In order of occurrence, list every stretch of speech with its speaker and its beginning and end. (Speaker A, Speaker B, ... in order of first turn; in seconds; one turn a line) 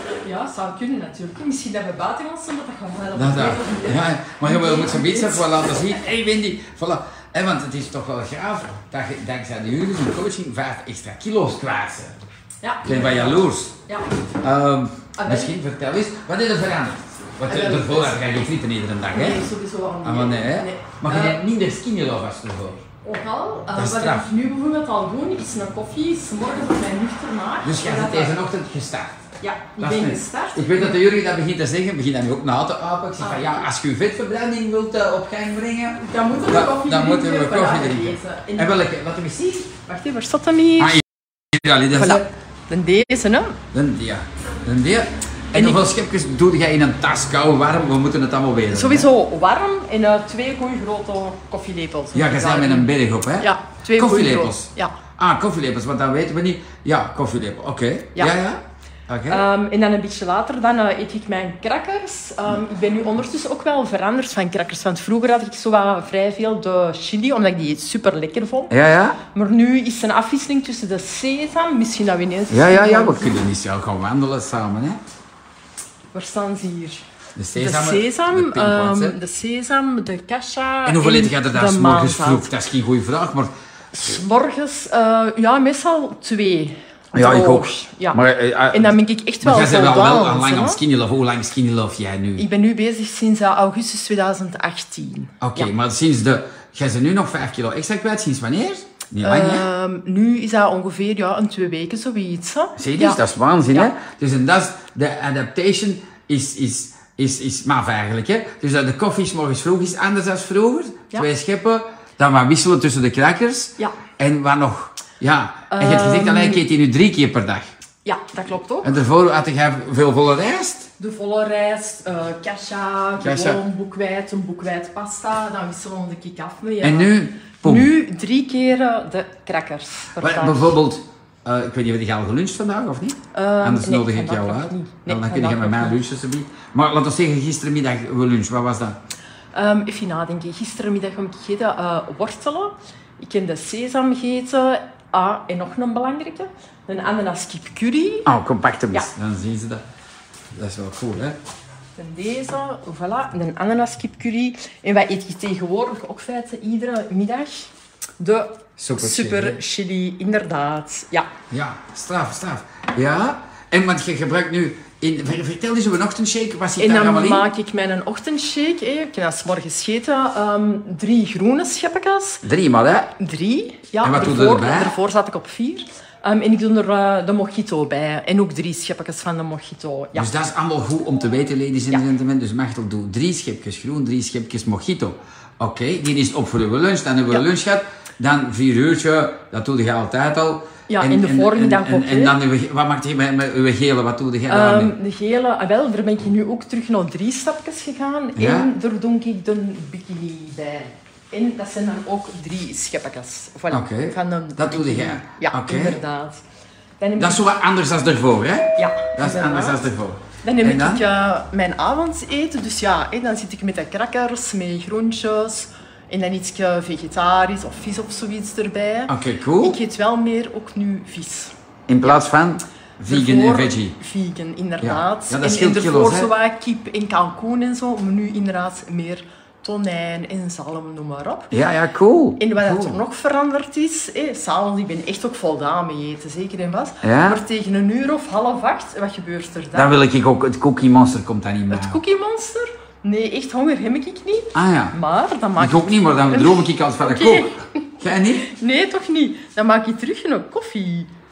Speaker A: 0.2-5.8
Speaker B: 3.1-12.2
Speaker A: 12.6-14.1
Speaker B: 12.8-13.8
Speaker B: 14.4-19.4
Speaker A: 15.2-15.5
Speaker A: 17.5-18.2
Speaker A: 19.1-21.4
Speaker B: 20.0-22.9
Speaker A: 23.0-28.4
Speaker B: 23.8-24.2
Speaker B: 27.6-29.2
Speaker A: 29.4-31.0
Speaker B: 29.8-39.7
Speaker A: 33.2-33.7
Speaker A: 36.0-38.8
Speaker A: 39.9-41.0
Speaker B: 40.8-42.2
Speaker A: 41.9-43.6
Speaker B: 43.7-49.1
Speaker A: 45.5-45.8
Speaker A: 48.7-55.0
Speaker B: 52.1-59.4
Speaker A: 59.3-68.7
Speaker B: 68.7-69.2
Speaker A: 69.3-73.4
Speaker B: 72.5-75.0
Speaker A: 76.1-77.0
Speaker B: 77.4-79.2
Speaker A: 77.5-82.5
Speaker B: 80.9-83.5
Speaker A: 83.9-88.2
Speaker B: 87.1-92.5
Speaker A: 88.7-90.8
Speaker A: 92.4-95.7
Speaker B: 95.4-99.7
Speaker A: 99.2-103.9
Speaker B: 102.8-117.7
Speaker A: 115.7-116.6
Speaker A: 118.0-119.0
Speaker B: 118.8-120.9
Speaker A: 121.0-130.8
Speaker B: 123.2-123.6
Speaker B: 126.8-127.9
Speaker B: 130.2-139.0
Speaker A: 133.3-136.0
Speaker A: 139.5-148.3
Speaker B: 148.3-149.8
Speaker B: 150.5-151.4
Speaker A: 152.0-161.3
Speaker B: 158.8-159.6
Speaker B: 161.5-167.4
Speaker A: 166.8-172.4
Speaker B: 172.4-173.1
Speaker A: 173.2-180.3
Speaker B: 174.0-174.9
Speaker B: 180.2-194.9
Speaker A: 190.9-192.3
Speaker A: 194.5-206.4
Speaker B: 198.4-198.7
Speaker B: 203.7-206.0
Speaker A: 207.0-207.4
Speaker B: 207.2-211.0
Speaker A: 208.8-209.9
Speaker A: 210.4-222.2
Speaker B: 219.1-219.8
Speaker B: 221.9-224.0
Speaker A: 223.1-231.5
Speaker B: 224.8-226.3
Speaker B: 231.5-233.0
Speaker A: 232.4-240.0
Speaker B: 237.0-237.4
Speaker B: 239.7-242.0
Speaker A: 241.7-247.7
Speaker B: 244.6-244.9
Speaker B: 245.6-248.5
Speaker A: 248.4-251.1